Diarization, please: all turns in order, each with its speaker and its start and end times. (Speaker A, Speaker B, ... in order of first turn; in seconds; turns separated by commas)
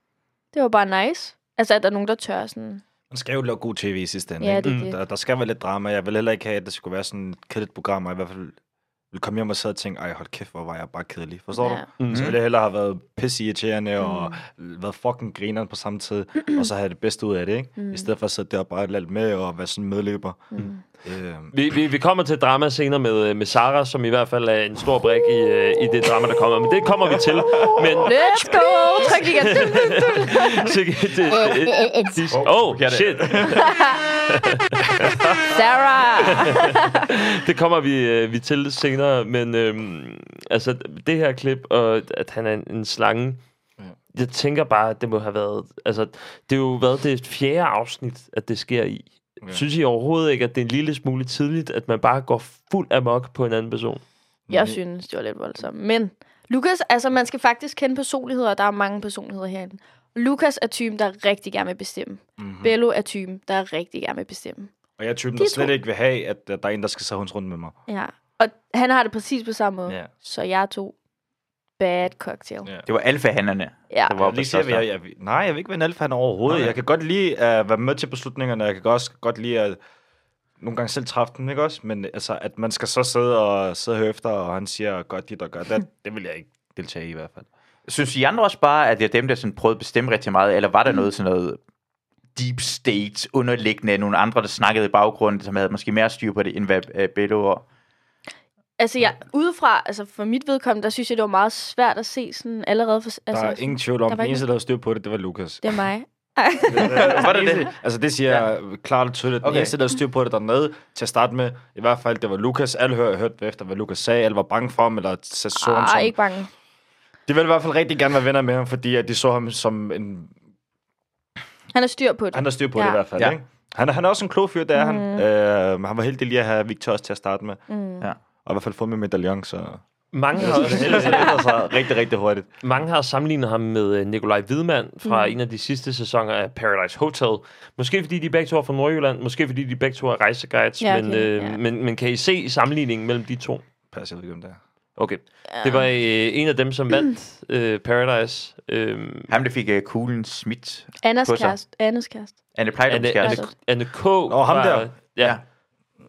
Speaker A: 0.5-2.8, Speaker B: 3.1-8.6, Speaker A: 4.4-5.0, Speaker B: 9.1-20.5, Speaker A: 11.6-11.8, Speaker C: 12.0-12.3, Speaker D: 12.1-12.4, Speaker A: 14.0-14.4, Speaker A: 17.8-18.1, Speaker A: 20.5-20.8, Speaker B: 21.0-21.5, Speaker C: 21.5-33.7, Speaker A: 28.1-30.7, Speaker A: 31.3-32.2, Speaker D: 32.3-33.9, Speaker A: 33.4-34.0, Speaker C: 34.3-35.4, Speaker A: 35.5-37.0, Speaker C: 36.2-43.4, Speaker C: 44.1-54.0, Speaker B: 54.5-54.8, Speaker A: 54.5-64.7, Speaker B: 62.4-62.7, Speaker B: 65.0-67.7, Speaker A: 65.4-65.8, Speaker A: 67.9-70.9, Speaker A: 71.8-72.7, Speaker D: 72.8-74.9, Speaker A: 73.9-74.2, Speaker B: 74.2-79.8, Speaker B: 80.6-87.5, Speaker D: 87.9-91.6, Speaker D: 92.3-97.6, Speaker A: 98.8-104.4, Speaker B: 103.3-105.7, Speaker A: 105.6-107.2, Speaker B: 106.7-116.2, Speaker D: 106.8-107.7, Speaker D: 109.4-109.8, Speaker A: 115.5-116.5, Speaker B: 117.3-120.3, Speaker A: 121.7-123.0, Speaker B: 122.3-127.6, Speaker A: 124.7-125.2, Speaker A: 127.7-128.1, Speaker B: 128.4-129.8, Speaker C: 130.1-131.5, Speaker B: 130.3-132.5, Speaker A: 130.7-131.3, Speaker C: 132.6-143.6, Speaker A: 135.0-135.3, Speaker A: 140.8-141.6, Speaker B: 143.9-144.6, Speaker C: 145.0-149.3, Speaker A: 145.5-145.9, Speaker D: 149.3-151.6, Speaker A: 151.0-152.4, Speaker D: 152.5-153.4, Speaker C: 152.9-155.4, Speaker A: 153.2-153.5, Speaker B: 154.3-154.9